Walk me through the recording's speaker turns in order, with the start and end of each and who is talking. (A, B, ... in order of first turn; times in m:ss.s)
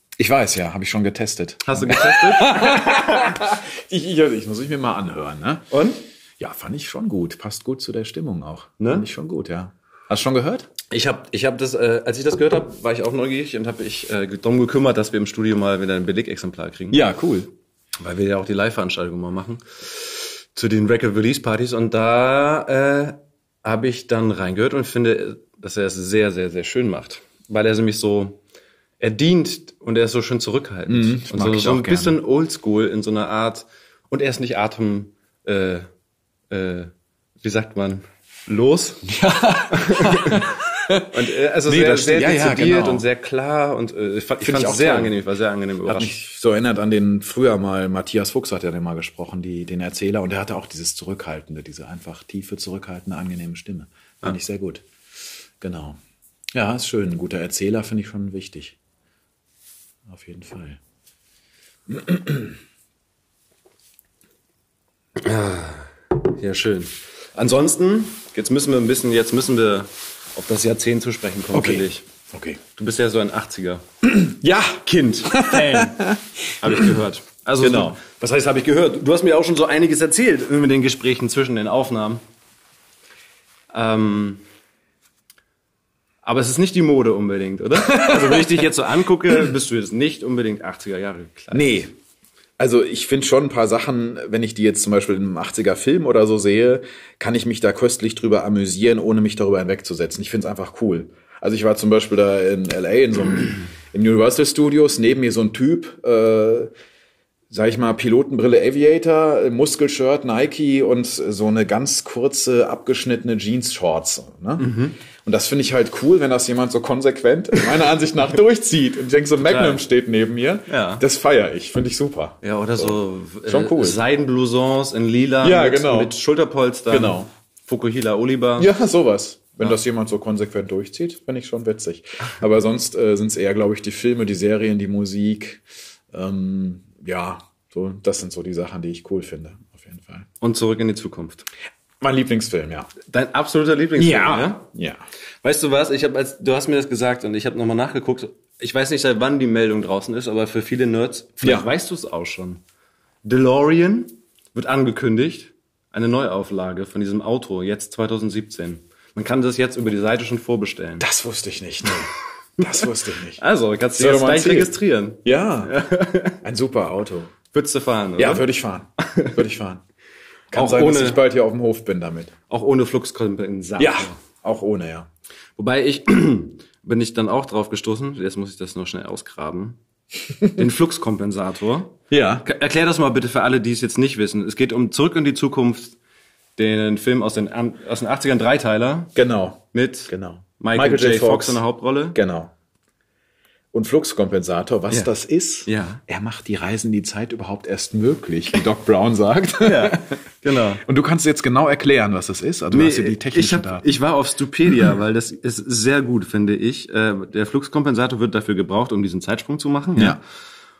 0:00.2-0:05.7 A
0:01.6-0:03.3 B
0:05.7-0:06.0 B
0:06.4-0:10.7 A
0:08.8-0:09.1 B
0:10.9-0:17.0 B
0:16.9-0:17.5 A
0:18.0-0:28.4 B
0:29.0-0:35.9 B
0:30.9-0:32.2 A
0:36.5-0:39.1 B
0:39.0-0:43.0 A
0:39.7-0:40.5 B
0:41.1-0:46.2 B
0:44.4-0:45.2 A
0:45.8-0:54.8 A
0:55.6-0:56.0 A
0:56.5-0:58.8 A
1:00.0-1:00.8 A
1:01.9-1:02.6 A
1:05.2-1:12.0 B
1:11.5-1:12.6 A
1:12.7-1:13.8 B
1:14.0-1:16.2 A
1:14.8-1:16.0 B
1:16.6-1:22.2 B
1:17.6-1:18.0 A
1:23.7-1:24.4 B
1:26.2-1:31.9 B
1:27.8-1:28.6 A
1:31.5-1:31.9 A
1:32.6-1:46.7 A
1:47.5-1:54.7 A
1:54.6-1:55.0 B
1:55.2-2:04.0 A
1:59.4-1:59.8 B
2:00.7-2:01.0 B
2:02.4-2:08.7 B
2:05.4-2:06.1 A
2:06.9-2:07.3 A
2:08.6-2:20.2 A
2:20.4-2:21.4 B
2:22.0-2:22.9 A
2:23.0-2:24.6 B
2:24.0-2:25.0 A
2:25.4-2:32.6 B
2:31.4-2:31.7 A
2:33.2-2:41.0 B
2:41.0-2:43.4 A
2:43.4-2:46.4 B
2:44.0-2:45.7 A
2:46.4-2:47.4 A
2:47.5-2:48.5 B
2:48.2-2:49.8 A
2:49.0-2:49.3 B
2:50.5-2:52.3 A
2:50.5-2:51.2 B
2:52.5-2:54.2 B
2:53.8-2:55.1 A
2:55.6-2:59.8 B
3:00.4-3:06.0 B
3:02.1-3:02.4 A
3:06.6-3:09.1 B
3:09.1-3:11.6 A
3:09.7-3:12.2 B
3:12.1-3:12.5 A
3:13.7-3:20.2 A
3:15.6-3:16.0 B
3:19.6-3:20.8 B
3:20.8-3:23.9 A
3:22.7-3:30.2 B